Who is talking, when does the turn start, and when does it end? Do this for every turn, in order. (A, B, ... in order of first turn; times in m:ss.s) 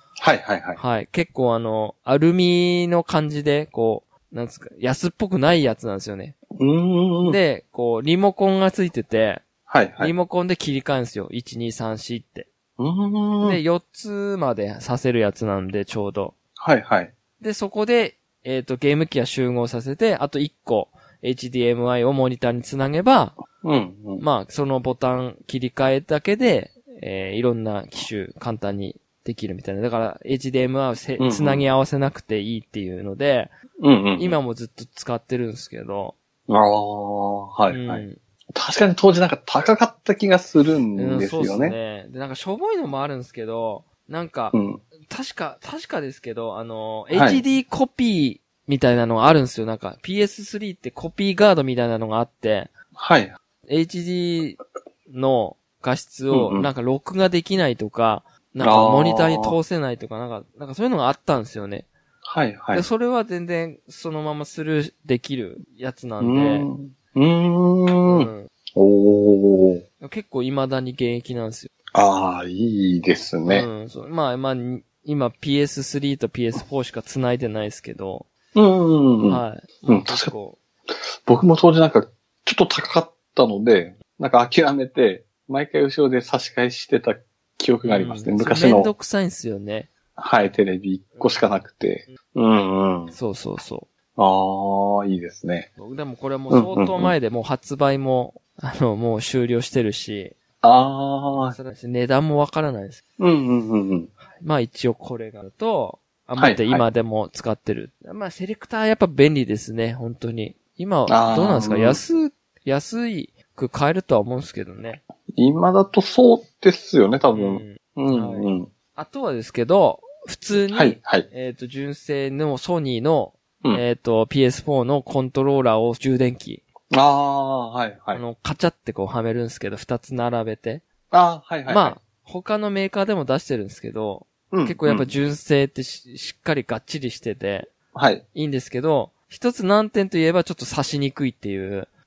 0:00.2-0:00.8 A
0:00.8-0:06.4 B
0:06.6-0:07.4 A
0:07.2-0:09.4 B
0:09.7-0:10.1 A
0:10.0-0:12.5 B
0:12.8-0:13.6 A
0:13.4-0:16.4 B
0:16.6-0:17.1 A
0:17.4-0:23.4 B
0:23.6-0:24.2 A
0:24.2-0:33.5 B
0:31.2-0:31.6 A
0:33.8-0:34.4 A
0:34.2-0:36.2 B
0:36.5-0:41.8 A
0:37.7-0:38.2 B
0:41.0-0:52.7 B
0:44.5-0:44.8 A
0:47.1-0:47.4 A
0:53.0-0:53.3 A
0:53.7-1:01.9 B
0:56.3-0:56.7 A
0:58.6-0:59.6 A
1:02.2-1:02.9 A
1:02.7-1:06.7 B
1:06.2-1:09.8 A
1:08.1-1:08.5 B
1:10.0-1:11.7 B
1:11.9-1:13.7 A
1:13.5-1:18.3 B
1:18.6-1:20.3 A
1:19.3-1:20.6 B
1:20.9-1:28.9 A
1:27.8-1:29.9 B
1:30.2-1:33.1 A
1:31.2-1:31.5 B
1:33.1-1:33.9 B
1:34.2-1:35.7 A
1:35.8-1:40.4 B
1:36.5-1:37.1 A
1:40.6-1:41.6 A
1:41.3-1:43.0 B
1:43.2-1:44.1 A
1:44.3-1:55.0 B
1:46.4-1:46.8 A
1:51.1-1:52.0 A
1:55.4-1:58.7 A
1:57.3-2:06.6 B
2:00.7-2:01.3 A
2:06.9-2:08.2 A
2:08.1-2:10.8 B
2:11.1-2:12.0 A
2:11.7-2:17.7 B
2:14.5-2:15.2 A
2:17.9-2:18.2 A
2:18.3-2:21.9 B